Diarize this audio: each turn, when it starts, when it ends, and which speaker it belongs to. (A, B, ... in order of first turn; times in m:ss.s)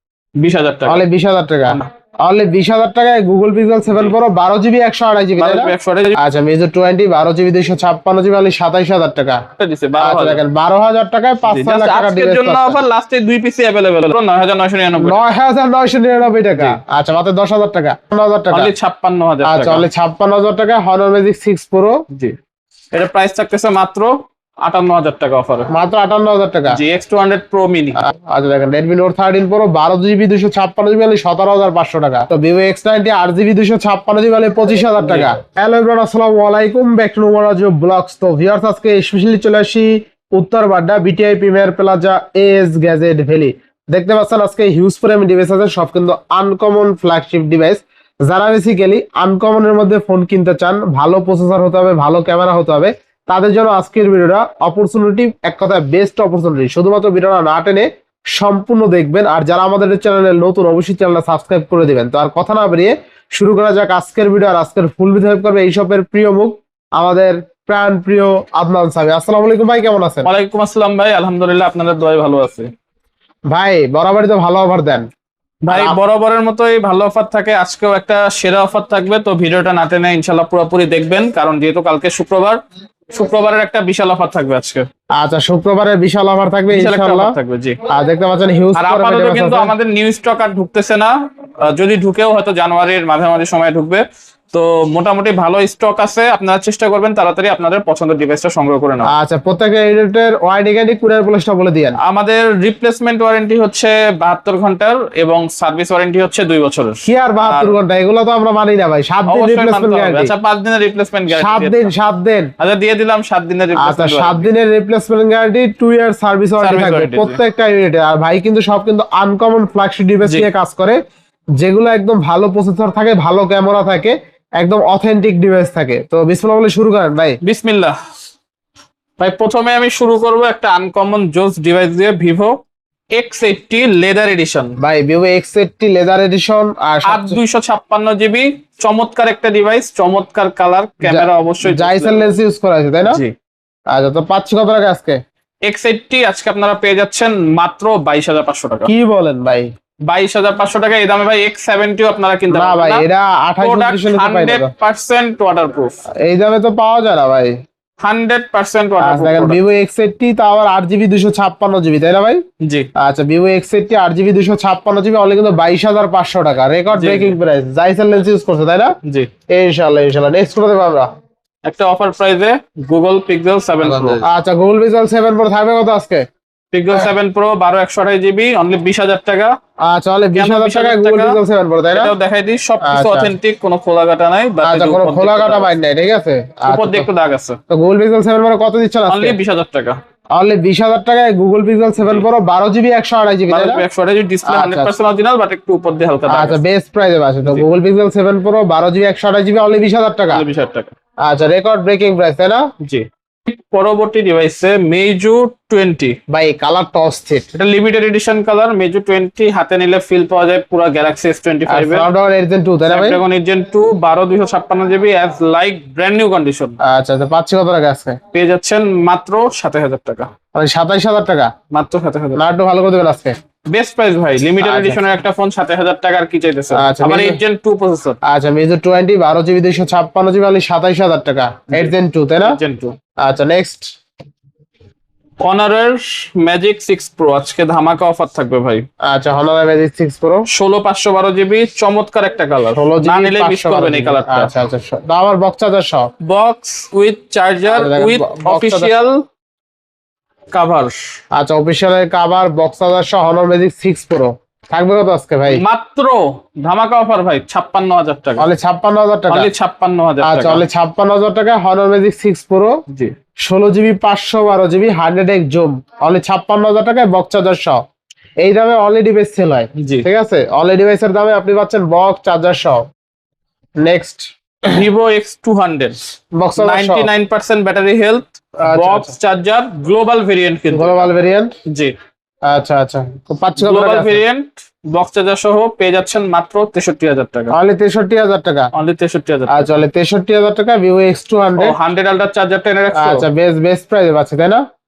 0:00.4-0:01.0 A
0:00.9-0:09.4 B
0:03.9-0:04.1 A
0:05.4-0:06.2 A
0:09.6-0:10.4 A
0:10.0-0:12.8 B
0:11.5-0:15.2 A
0:15.0-0:18.7 B
0:18.5-0:19.8 A
0:19.4-0:22.0 B
0:22.1-0:22.4 A
0:22.9-0:25.7 A
0:25.7-0:26.8 B
0:26.7-0:28.0 A
0:28.0-1:10.3 B
0:35.0-0:35.3 A
1:10.2-1:12.7 A
1:13.5-1:15.1 B
1:15.6-1:22.6 A
1:15.7-1:16.0 B
1:23.1-1:24.9 A
1:25.2-1:27.4 B
1:26.7-1:27.8 A
1:27.9-1:29.7 B
1:28.7-1:39.1 A
1:39.0-1:42.0 B
1:42.0-1:47.8 A
1:47.0-1:50.3 B
1:49.3-1:51.9 A
1:51.3-1:52.5 B
1:52.6-1:54.5 A
1:53.8-2:01.0 B
1:56.6-1:57.4 A
2:01.6-2:07.4 B
2:07.4-2:08.0 A
2:09.2-2:12.6 A
2:13.1-2:14.8 A
2:14.8-2:17.4 B
2:17.0-2:22.3 A
2:21.0-2:23.2 B
2:23.9-2:25.2 B
2:25.6-2:28.9 A
2:28.8-2:29.7 B
2:30.1-2:33.0 A
2:32.5-2:34.7 B
2:33.6-2:36.0 A
2:36.2-2:37.5 B
2:38.0-2:39.6 A
2:39.0-2:42.4 B
2:42.6-2:42.9 A
2:43.0-2:48.9 B
2:46.9-2:47.4 A
2:49.0-2:49.3 A
2:49.5-2:51.1 B
2:51.6-2:54.2 A
2:53.8-2:56.2 B
2:56.7-2:59.5 A
2:59.8-3:02.1 B
3:00.4-3:01.4 A
3:01.9-3:05.7 A
3:02.8-3:03.3 B
3:04.6-3:07.1 B
3:06.6-3:07.6 A
3:07.7-3:09.4 B
3:09.1-3:10.0 A
3:10.4-3:13.8 B
3:12.0-3:12.2 A
3:13.5-3:16.6 A
3:14.4-3:14.9 B
3:16.3-3:20.4 B
3:20.3-3:20.9 A
3:21.2-3:22.6 B
3:22.8-3:26.2 A
3:26.3-3:27.5 B
3:27.5-3:32.1 A
3:31.7-3:33.2 B
3:32.9-3:36.8 A
3:36.8-3:38.2 B
3:38.3-3:40.3 A
3:40.5-3:41.5 B
3:41.7-3:42.4 A
3:42.4-3:43.4 B
3:43.7-3:48.2 A
3:44.6-3:45.0 B
3:46.7-3:47.4 B
3:48.2-3:52.6 B
3:51.7-3:53.0 A
3:53.2-3:53.9 B
3:55.4-3:58.8 A
3:59.0-4:00.5 B
4:00.5-4:04.5 A
4:02.7-4:06.1 B
4:06.2-4:09.2 A
4:07.7-4:08.9 B
4:10.5-4:10.9 A
4:11.3-4:15.6 B
4:15.5-4:18.5 A
4:18.4-4:19.5 B
4:19.3-4:20.6 A
4:20.2-4:22.7 B
4:23.4-4:27.8 B
4:28.4-4:32.8 B
4:29.8-4:30.0 A
4:33.8-4:34.8 B
4:34.6-4:36.0 A
4:36.4-4:37.1 B
4:36.6-4:41.1 A
4:38.6-4:39.2 B
4:40.7-4:41.5 B
4:41.6-4:41.9 A
4:42.5-4:44.2 B
4:43.6-4:47.5 A
4:47.5-4:48.7 B
4:48.7-4:49.8 A
4:49.5-4:51.8 B
4:51.6-4:53.3 A
4:53.0-4:54.6 B